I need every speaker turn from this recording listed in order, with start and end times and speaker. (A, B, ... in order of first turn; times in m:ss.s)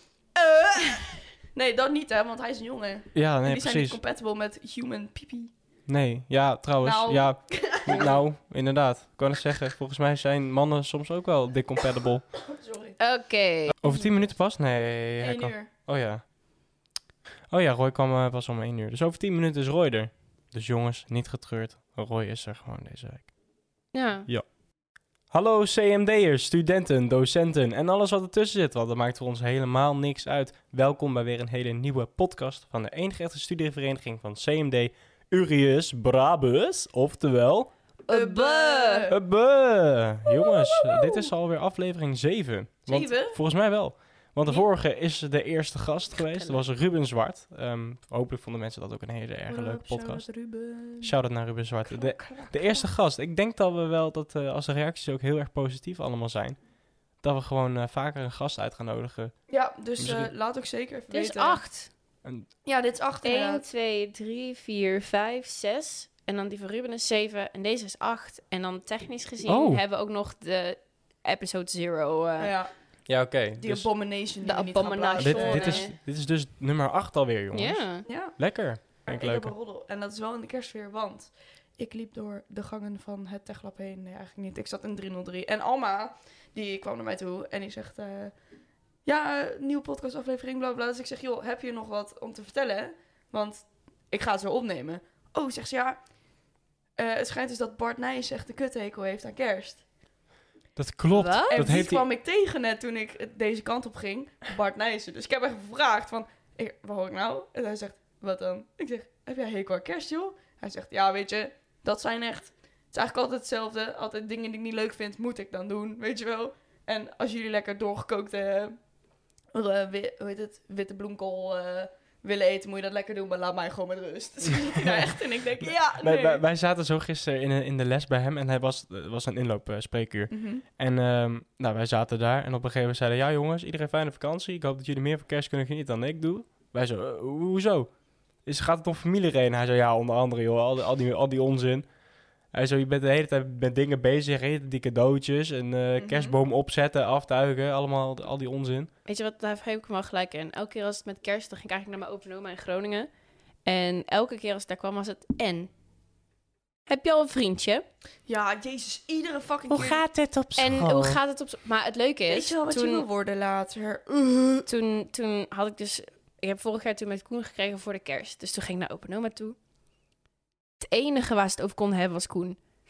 0:00.4-0:05.5 A
0:03.1-0:04.0 B
0:05.9-0:12.4 B
0:06.8-0:08.2 A
0:12.5-0:13.0 A
0:13.0-0:13.8 C
0:13.8-0:16.2 B
0:15.2-0:15.7 A
0:17.5-0:23.3 B
0:23.9-0:24.3 C
0:25.3-0:37.7 B
0:38.0-0:39.1 C
0:38.1-0:39.2 A
0:39.1-0:59.4 B
0:40.3-0:41.3 A
0:42.9-0:43.4 A
0:46.3-0:46.6 C
0:49.5-0:51.1 A
0:51.8-0:52.9 A
0:59.5-1:01.6 A
1:00.0-1:00.3 B
1:01.1-1:01.9 C
1:02.2-1:02.5 B
1:02.6-1:03.6 A
1:03.2-1:12.5 C
1:09.5-1:09.8 B
1:12.4-1:15.9 A
1:13.1-1:13.9 B
1:14.4-1:15.9 C
1:15.2-1:19.5 B
1:17.5-1:18.0 C
1:18.0-1:28.4 A
1:29.0-1:36.2 A
1:37.0-1:39.8 A
1:40.8-1:42.1 B
1:41.1-1:41.7 C
1:41.5-1:58.8 A
1:59.5-2:06.4 A
2:04.6-2:05.0 B
2:05.6-2:21.9 B
2:10.3-2:10.6 A
2:22.4-2:28.9 B
2:26.0-2:26.4 A
2:29.0-2:33.1 C
2:33.6-2:35.7 C
2:36.9-2:37.8 C
2:38.2-2:40.0 A
2:39.7-2:41.2 B
2:40.5-2:43.0 C
2:42.3-2:44.7 A
2:44.6-2:49.6 C
2:50.8-2:52.6 C